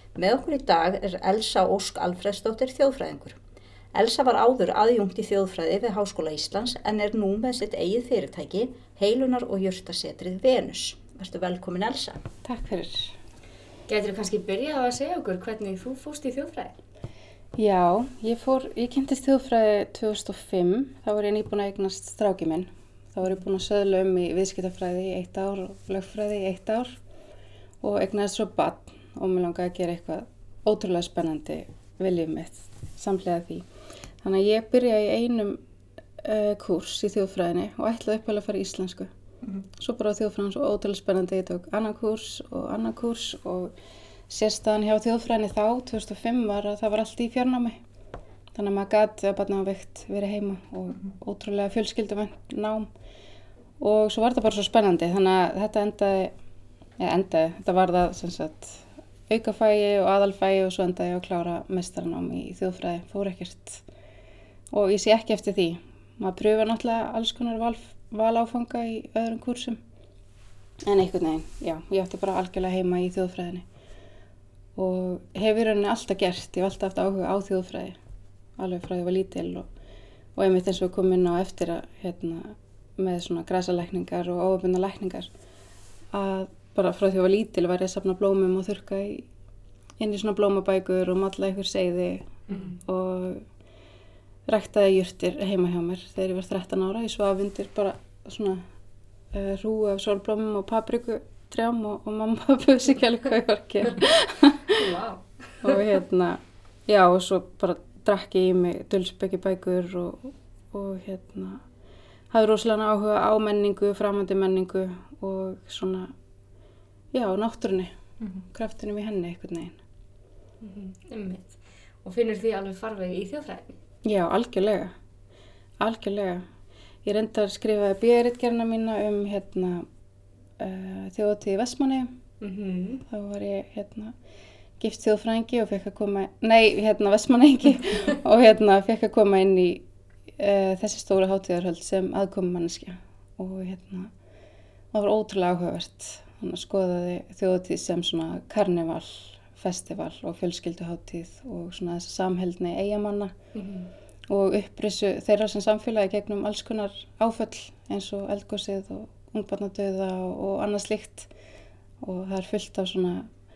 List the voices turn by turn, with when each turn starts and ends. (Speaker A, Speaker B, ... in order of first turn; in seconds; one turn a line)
Speaker A: 0.2-3.4
Speaker A: 3.9-12.2
Speaker B: 12.4-13.2
Speaker C: 13.9-16.8
Speaker B: 17.6-27.0
Speaker B: 27.8-33.7
Speaker B: 34.2-35.6
Speaker B: 36.2-39.1
Speaker B: 39.8-43.7
Speaker B: 44.3-47.8
Speaker B: 48.5-52.9
Speaker B: 53.8-56.3
Speaker B: 57.0-63.8
Speaker B: 64.7-69.8
Speaker B: 70.8-73.7
Speaker B: 74.8-78.0
Speaker B: 78.6-79.7
Speaker B: 80.4-85.3
Speaker B: 86.1-89.3
Speaker B: 90.0-93.5
Speaker B: 94.5-98.7
Speaker B: 99.3-104.9
Speaker C: 104.8-105.8
Speaker B: 105.6-111.6
Speaker B: 112.3-116.1
Speaker B: 117.1-118.0
Speaker B: 118.5-119.8
Speaker C: 120.6-123.8
Speaker B: 124.0-124.9
Speaker B: 125.8-126.5
Speaker B: 127.0-129.9
Speaker B: 130.6-132.1
Speaker C: 132.4-133.0
Speaker B: 133.1-134.1
Speaker B: 134.8-139.8
Speaker B: 140.4-144.1
Speaker B: 144.9-153.3
Speaker C: 153.5-153.9
Speaker B: 154.3-161.3
Speaker B: 162.0-163.3